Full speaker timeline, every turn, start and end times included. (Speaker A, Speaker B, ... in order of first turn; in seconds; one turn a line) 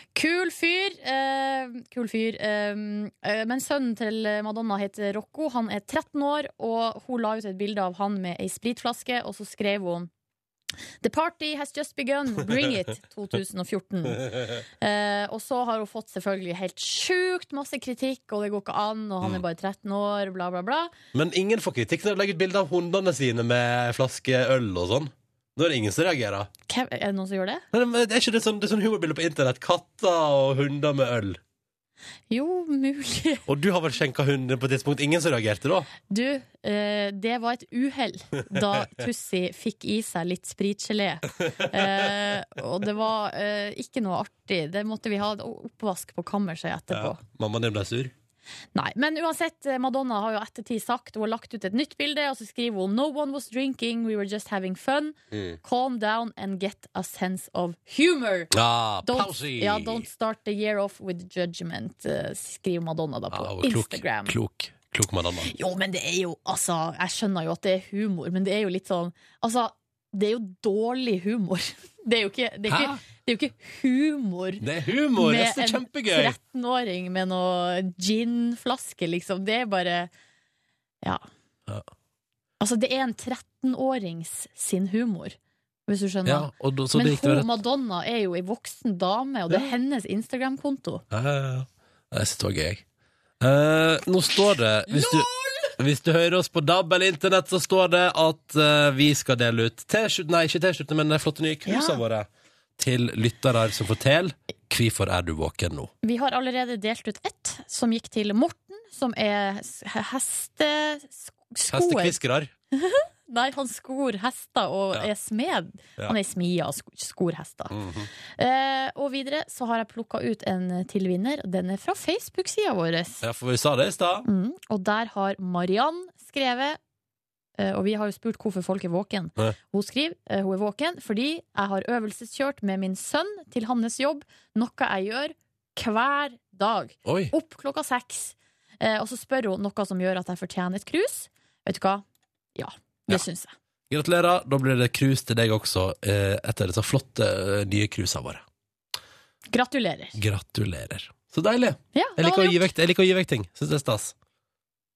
Speaker A: 0.1-10.1
Speaker A: 11.0-20.9
Speaker B: 21.1-26.5
Speaker A: 26.7-27.6
Speaker B: 27.7-31.4
Speaker A: 32.3-33.5
Speaker B: 33.5-35.9
Speaker A: 36.1-47.2
Speaker B: 46.9-48.1
Speaker A: 48.8-58.5
Speaker B: 55.3-55.6
Speaker B: 58.5-60.1
Speaker A: 59.0-64.4
Speaker B: 63.3-65.5
Speaker A: 65.5-74.6
Speaker B: 72.7-73.0
Speaker B: 74.6-76.4
Speaker A: 75.2-80.1
Speaker A: 82.6-91.0
Speaker B: 86.3-87.6
Speaker B: 91.1-92.8
Speaker B: 93.4-105.9
Speaker A: 94.9-95.7
Speaker A: 101.7-102.0
Speaker A: 106.0-112.2
Speaker B: 111.7-112.5
Speaker A: 112.7-117.8
Speaker B: 117.7-118.1
Speaker A: 118.4-123.2
Speaker B: 123.2-124.3
Speaker A: 124.2-126.8
Speaker A: 127.6-142.0
Speaker B: 137.1-137.3
Speaker A: 142.6-143.5
Speaker B: 143.9-148.4
Speaker A: 149.5-150.2
Speaker B: 150.2-154.1
Speaker A: 151.9-152.6